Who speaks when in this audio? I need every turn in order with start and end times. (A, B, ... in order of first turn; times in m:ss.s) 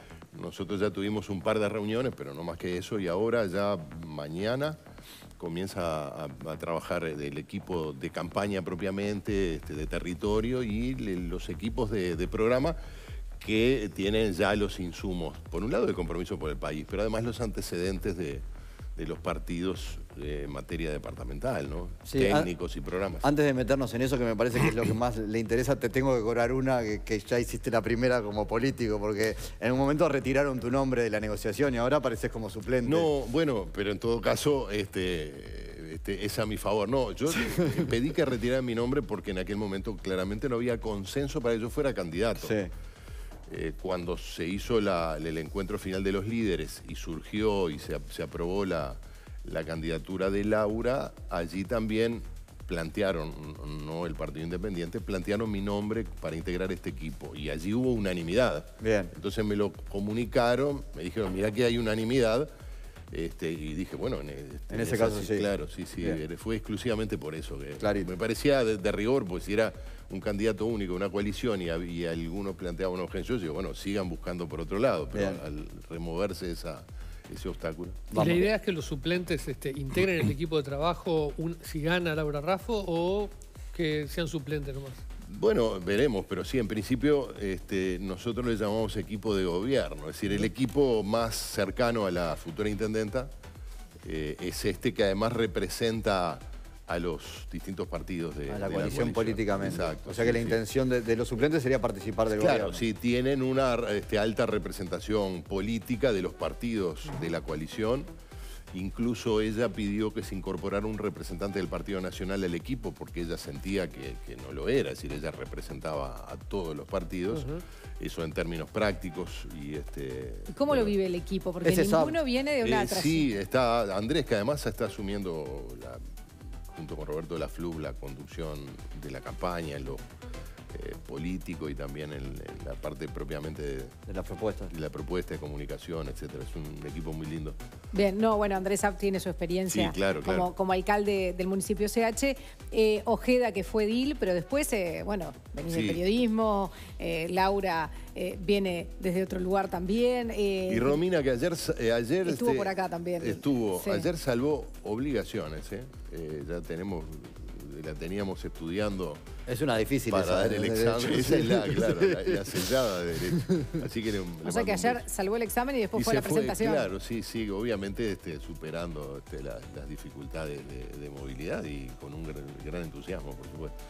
0:00.3-0:04.8 A
0:05.4-0:12.8 A
0:13.4-0:18.4 A
0:19.0-0:23.3 A
0:22.1-0:22.5 B
0:23.2-0:33.1 B
0:32.8-0:42.6 A
0:37.6-0:37.9 B
0:42.4-0:42.7 B
0:43.5-1:02.5 A
0:58.8-0:59.1 B
1:03.1-1:18.1 A
1:04.7-1:05.5 B
1:07.8-1:08.1 B
1:15.1-1:15.4 B
1:18.1-1:18.5 B
1:18.2-1:25.0 C
1:25.3-1:33.3 A
1:34.0-1:40.6 A
1:38.5-1:42.8 B
1:42.4-1:48.1 A
1:48.7-2:00.9 A
2:00.5-2:03.3 D
2:01.6-2:02.2 B
2:02.6-2:06.0 A
2:06.7-2:10.0 A
2:10.7-2:14.0 A
2:14.1-2:14.7 B
2:14.7-2:17.6 A
2:17.9-2:31.0 D
2:19.7-2:20.5 A
2:25.7-2:26.0 A
2:30.7-2:39.2 A
2:32.2-2:34.1 D
2:39.5-2:42.6 B
2:40.1-2:45.0 A
2:43.4-2:43.7 B
2:44.4-2:46.9 D
2:46.0-2:53.7 A